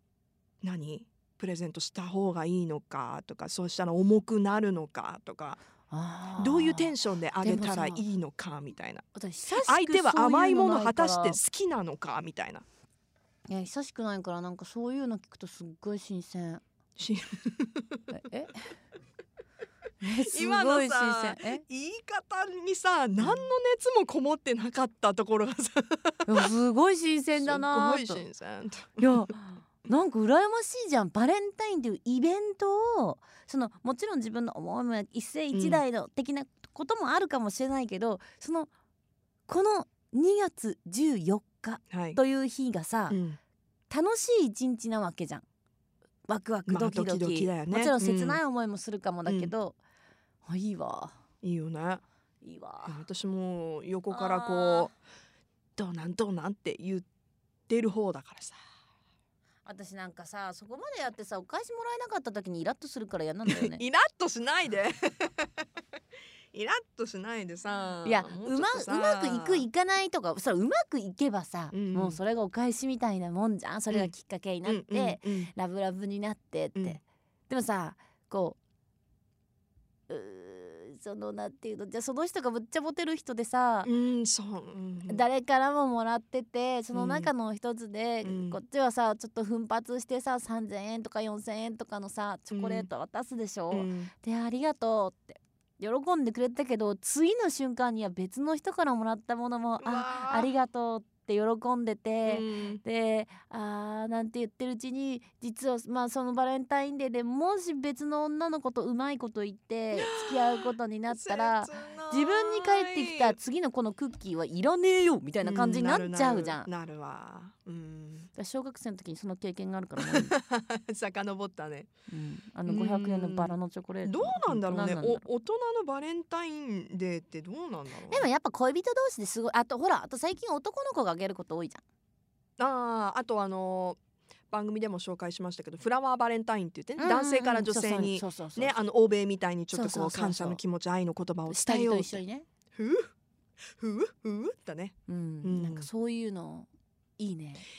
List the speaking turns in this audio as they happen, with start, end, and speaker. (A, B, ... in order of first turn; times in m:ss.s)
0:00.6-0:05.6 A
0:05.9-0:08.0 B
0:06.4-0:09.0 A
0:09.1-0:11.4 B
0:09.6-0:12.6 A
0:13.5-0:16.6 B
0:17.0-0:18.0 A
0:18.1-0:18.8 B
0:20.0-0:21.6 B
0:20.2-0:26.5 A
0:26.3-0:28.2 B
0:27.4-0:29.3 A
0:29.0-0:38.7 B
0:35.5-0:35.8 A
0:39.5-0:43.2 B
0:41.9-0:42.2 A
0:43.1-0:43.4 A
0:43.9-0:45.4 B
0:46.3-0:49.8 B
0:46.7-0:48.4 A
0:49.2-0:49.5 A
0:50.4-0:51.1 B
0:51.4-0:52.0 A
0:52.4-0:53.0 B
0:52.9-0:54.9 A
0:54.1-0:54.9 B
0:55.8-0:57.0 A
0:57.7-0:58.6 A
0:59.6-1:03.8 B
1:03.5-1:05.6 A
1:06.5-1:09.6 A
1:08.0-1:18.6 B
1:11.7-1:12.2 A
1:14.6-1:15.5 A
1:20.1-1:23.9 B
1:23.8-1:25.2 A
1:25.1-1:56.7 B
1:26.9-1:27.3 A
1:28.2-1:28.6 A
1:32.5-1:32.9 A
1:33.7-1:34.1 A
1:39.8-1:40.5 A
1:42.2-1:42.8 A
1:49.9-1:53.3 A
1:55.4-1:58.3 A
1:58.4-2:00.4 B
2:00.0-2:01.9 A
2:02.1-2:05.2 B
2:02.6-2:08.3 A
2:08.1-2:11.8 B
2:12.6-2:14.0 A
2:14.5-2:22.2 A
2:17.0-2:18.8 B
2:19.7-2:20.6 B
2:21.5-2:22.4 B
2:22.8-2:23.1 A
2:23.8-2:25.9 A
2:25.1-2:26.7 B
2:27.2-2:27.6 B